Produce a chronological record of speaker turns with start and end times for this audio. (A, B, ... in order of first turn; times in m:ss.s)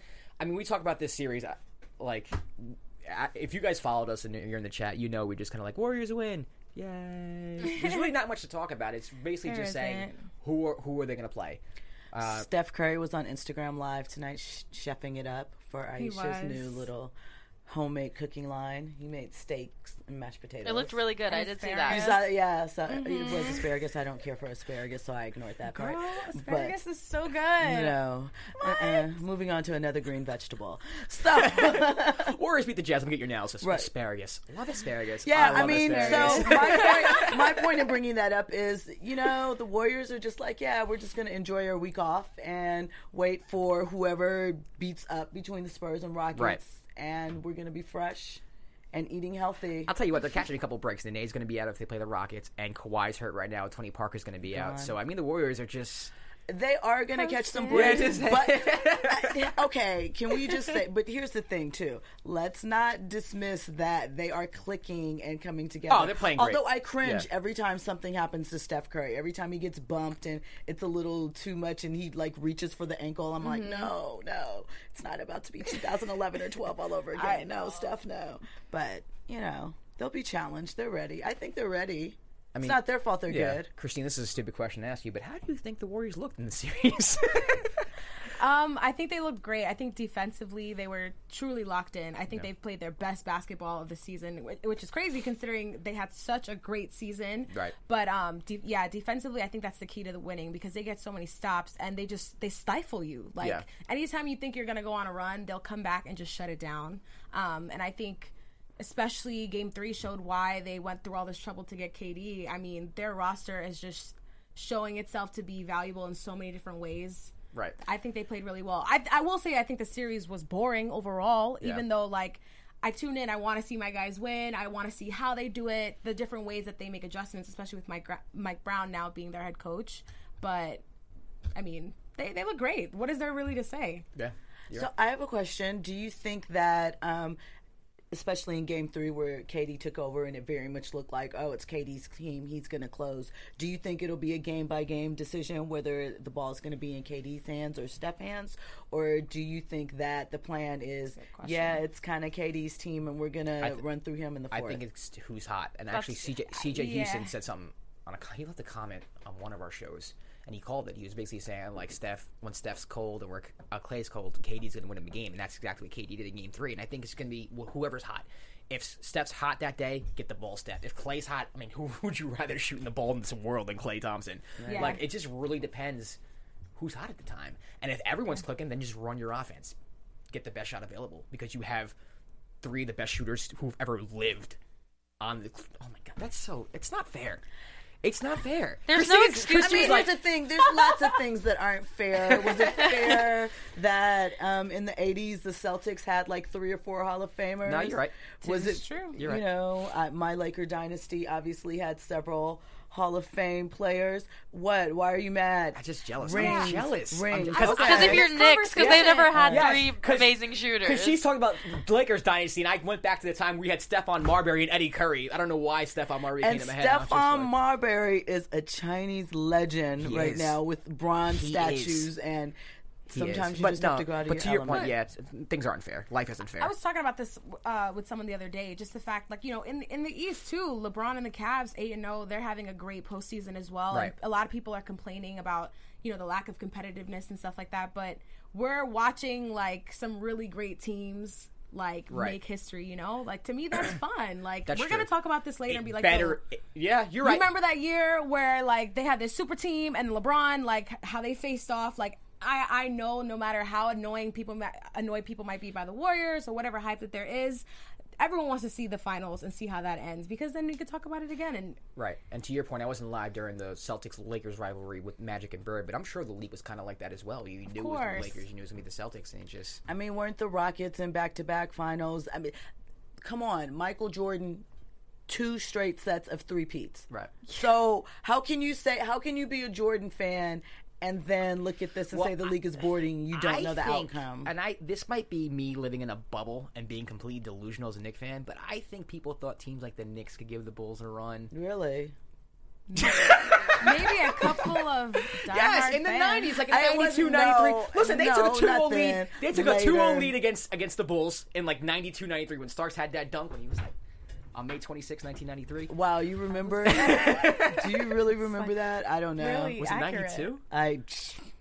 0:00.4-0:11.6 A
0:07.6-0:08.0 B
0:09.4-0:10.2 B
0:12.1-0:12.5 A
0:12.2-0:17.1 C
0:16.0-0:16.8 B
0:17.6-0:21.0 C
0:20.6-0:22.2 D
0:21.3-0:22.2 B
0:21.9-0:26.8 C
0:22.9-0:23.6 B
0:25.7-0:28.0 B
0:27.6-0:32.4 C
0:28.6-0:29.0 B
0:31.3-0:37.5 A
0:33.6-0:33.9 C
0:35.2-0:49.9 C
0:35.3-0:37.3 B
0:49.9-0:56.1 A
0:54.4-0:55.0 C
0:56.5-1:23.7 C
0:57.2-0:58.2 B
0:57.7-0:59.5 A
1:05.9-1:07.3 A
1:13.4-1:13.9 B
1:17.2-1:17.8 B
1:22.5-1:27.8 A
1:28.4-2:10.8 B
1:37.5-1:37.7 A
1:43.4-1:43.6 A
2:11.5-2:14.0 B
2:14.2-2:14.9 A
2:14.7-2:17.4 C
2:18.1-2:34.8 C
2:31.2-2:31.8 B
2:34.5-2:56.2 A
2:35.9-2:36.4 D
2:36.6-2:37.3 B
2:54.6-2:55.0 C
2:54.7-2:55.0 B
2:56.8-2:59.8 A
3:00.3-3:01.9 A
3:02.6-3:04.6 A
3:05.2-3:07.4 A
3:08.0-3:10.1 A
3:08.9-3:10.1 D
3:09.6-3:29.7 C
3:12.3-3:13.2 A
3:17.6-3:18.1 A
3:18.4-3:19.2 B
3:19.2-3:19.5 A
3:25.7-3:37.5 A
3:26.3-3:26.8 B
3:27.5-3:29.3 B
3:27.6-3:31.2 D
3:36.4-3:42.6 C
3:40.0-3:40.6 A
3:41.3-3:42.1 A
3:43.1-3:44.9 C
3:43.1-3:46.7 A
3:46.6-4:06.4 B
4:02.1-4:02.4 A
4:04.7-4:05.1 A
4:05.6-4:07.5 A
4:07.2-4:17.6 B
4:18.2-4:21.8 B
4:22.0-4:29.8 A
4:27.7-4:28.4 B
4:29.9-4:32.5 C
4:33.2-4:34.6 C
4:35.3-4:44.5 C
4:37.1-4:37.5 A
4:42.1-4:42.5 A
4:43.3-4:51.5 A
4:51.5-4:52.1 C
4:52.9-4:53.2 B
4:53.0-4:54.7 A
4:53.7-4:56.6 B
4:55.3-5:03.9 A
4:56.7-5:00.4 C
5:04.5-5:05.9 A
5:05.9-5:09.8 C
5:06.8-5:08.0 A
5:08.4-5:08.8 B
5:09.4-5:10.5 B
5:09.8-5:10.6 A
5:10.7-5:11.5 C